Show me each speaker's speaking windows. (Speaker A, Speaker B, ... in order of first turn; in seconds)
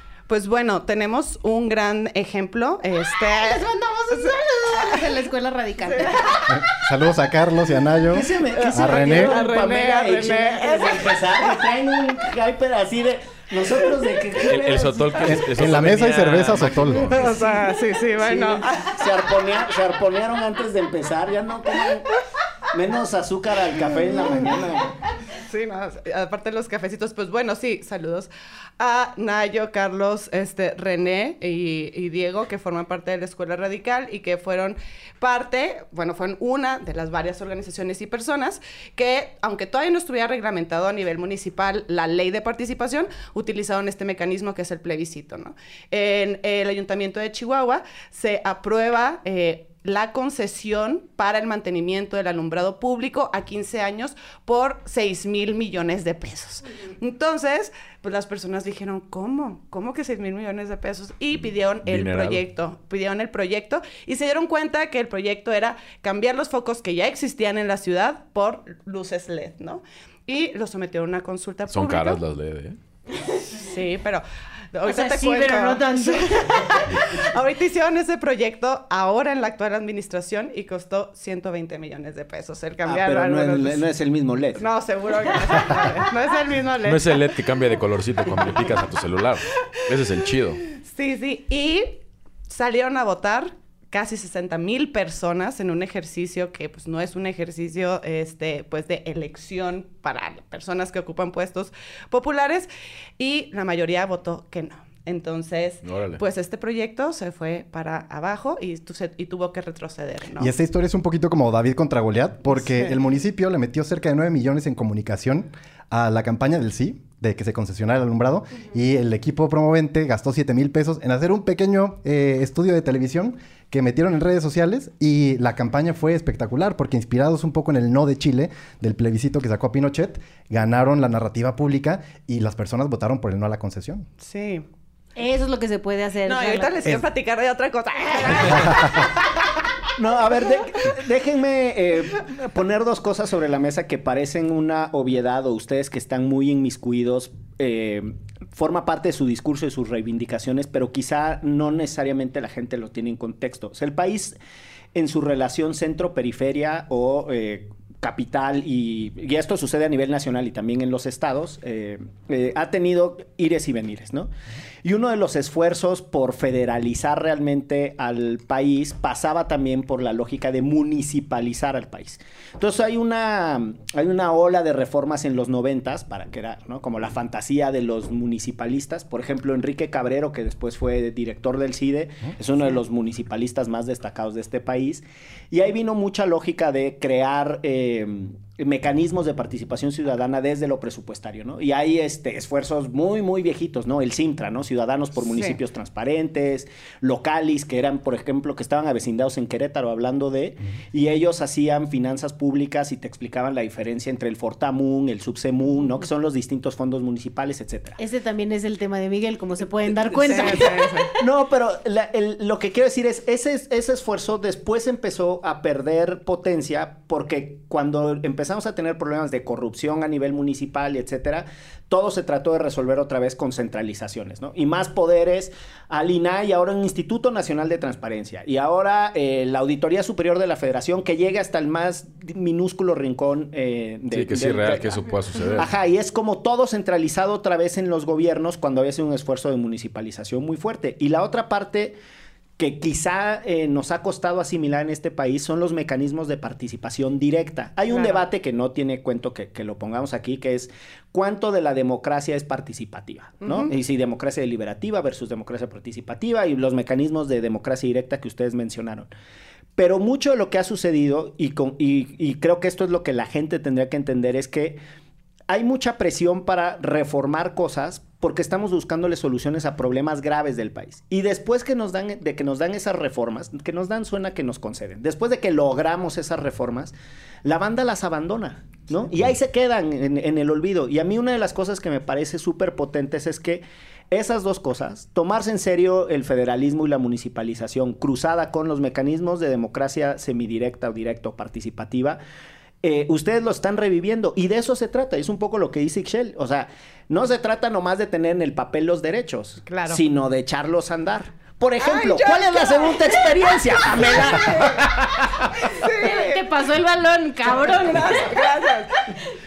Speaker A: 0.3-3.6, 4.1-5.1, 5.8-6.2, 8.5-11.2, 17.1-18.9, 25.3-72.2, 73.6-83.8, 84.6-87.1, 90.7-110.5, 112.5-113.0, 134.2-134.6, 136.2-139.2, 210.2-211.1, 247.9-248.2, 253.4-253.7, 299.6-300.0, 301.8-303.2, 305.5-306.4, 307.4-309.0
Speaker B: 3.2-6.6, 74.8-76.8, 135.2-137.0, 208.0-211.2, 305.7-308.4
Speaker C: 6.5-9.4, 15.2-17.4, 110.4-134.1
Speaker D: 8.1-15.1, 18.1-22.1, 22.7-24.9, 82.8-84.6, 140.0-154.4, 154.9-164.3, 164.8-208.0, 210.1-235.0, 235.6-242.0, 242.6-259.1, 259.8-264.8, 265.5-292.2, 292.8-305.3
Speaker E: 14.4-17.2, 61.9-62.4, 71.7-72.8, 86.8-90.6, 105.8-106.2, 234.1-235.7